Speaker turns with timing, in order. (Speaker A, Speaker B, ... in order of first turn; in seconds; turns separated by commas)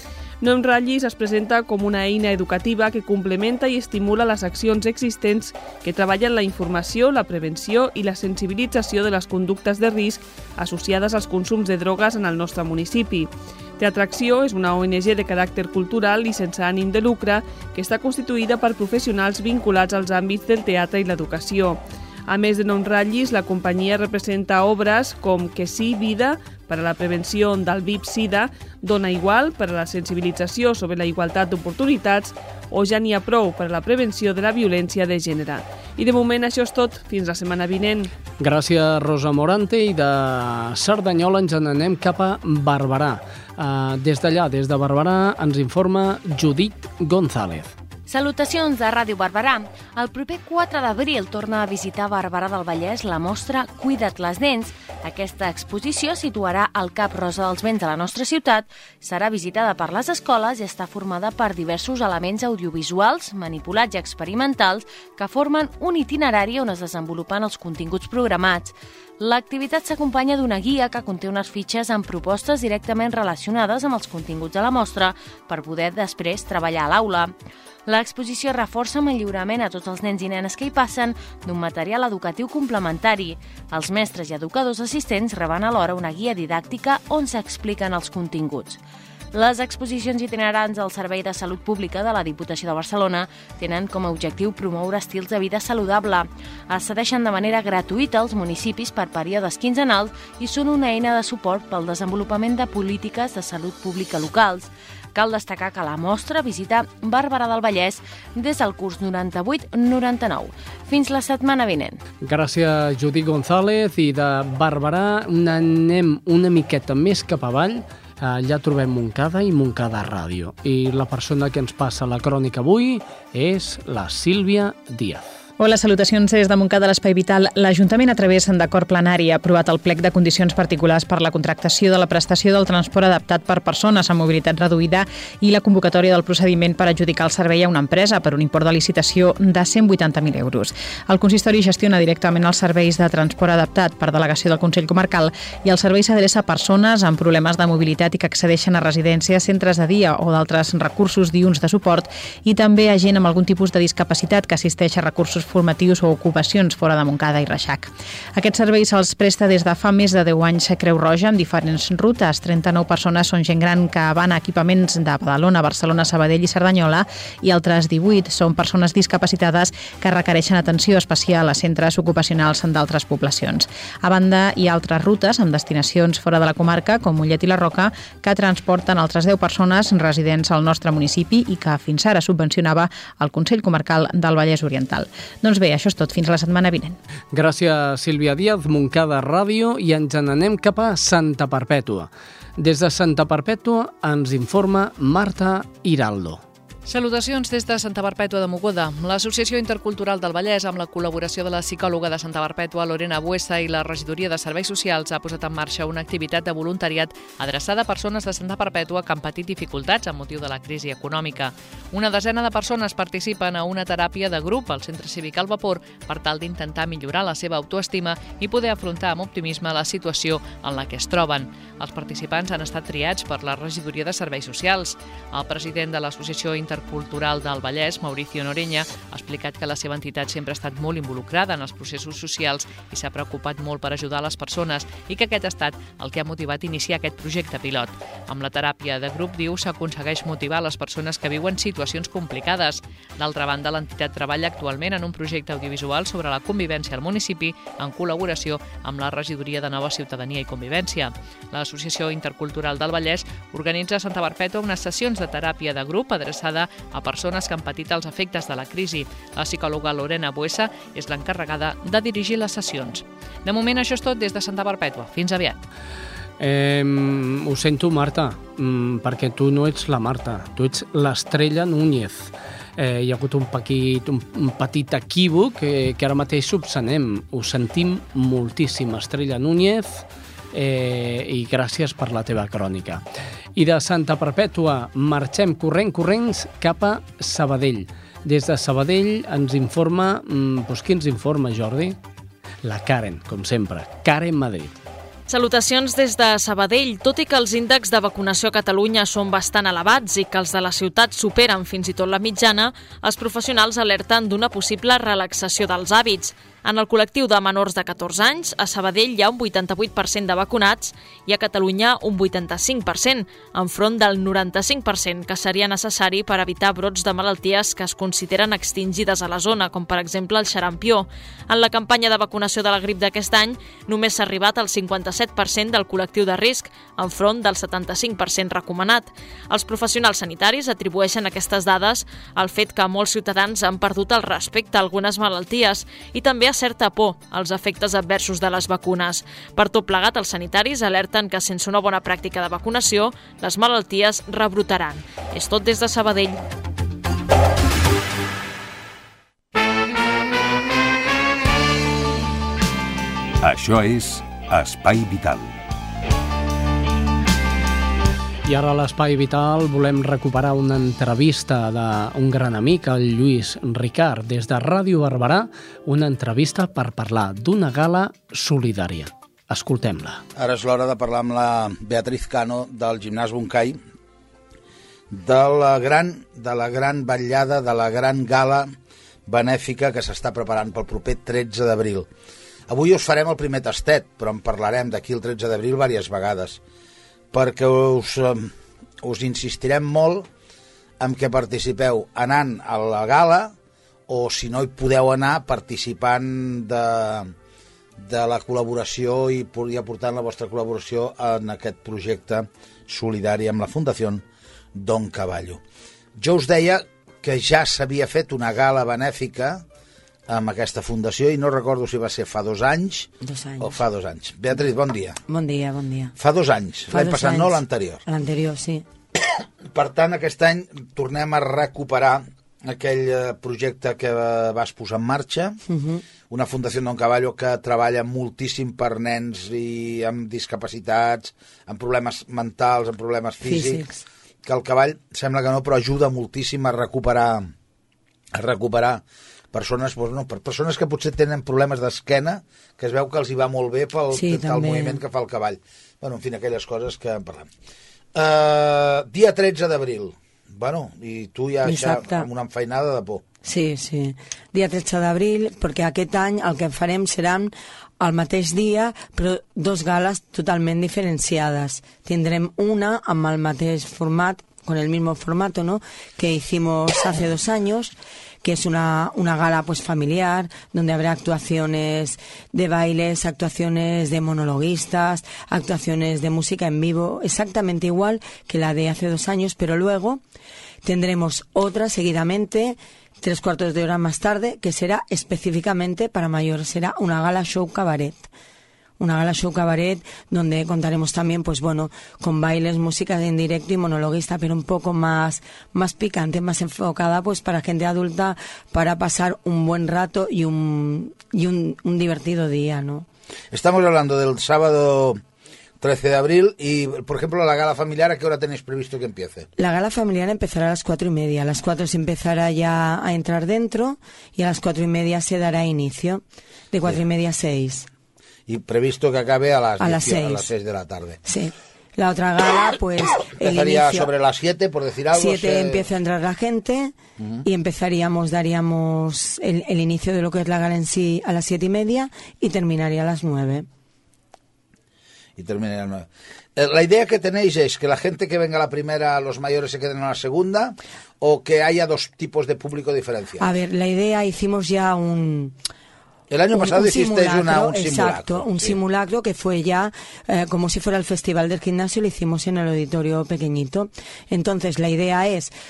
Speaker A: 0.4-38.1, Speaker B: 38.4-47.7, Speaker C: 48.1-77.3, Speaker C: 77.9-88.8, Speaker C: 89.3-112.0, Speaker B: 112.2-125.3, Speaker D: 125.6-187.0, Speaker B: 187.3-196.4, Speaker E: 196.9-265.7, Speaker B: 266.4-283.0, Speaker B: 283.6-292.0, Speaker B: 292.6-294.8, Speaker F: 295.3-346.4, Speaker G: 353.4-355.5, Speaker B: 358.4-370.2, Speaker H: 370.4-373.8, Speaker H: 375.1-378.7, Speaker H: 379.2-382.1, Speaker H: 382.7-386.6, Speaker H: 387.3-390.3, Speaker H: 391.0-393.5, Speaker H: 394.1-397.3, Speaker H: 398.0-404.2, Speaker H: 404.7-405.6, Speaker H: 406.2-409.6, Speaker H: 410.3-415.2, Speaker I: 413.2-413.8, Speaker I: 415.3-416.1, Speaker H: 416.2-418.0, Speaker I: 416.9-418.8, Speaker H: 419.7-425.6, Speaker I: 425.7-426.0, Speaker H: 426.3-433.8, Speaker I: 433.4-434.0, Speaker H: 434.4-437.5, Speaker H: 438.3-447.5, Speaker I: 444.1-445.0, Speaker H: 448.1-453.2, Speaker I: 451.6-452.3, Speaker I: 453.4-480.2, Speaker I: 480.8-488.3, Speaker I: 489.0-503.1, Speaker H: 503.5-505.2, Speaker H: 505.8-509.5, Speaker I: 509.6-517.9, Speaker H: 518.5-521.2, Speaker I: 519.8-520.5, Speaker I: 521.2-524.1, Speaker H: 523.2-525.9, Speaker I: 525.1-533.7, Speaker H: 535.4-543.5, Speaker I: 543.4-545.6, Speaker H: 546.3-548.8, Speaker I: 546.5-555.5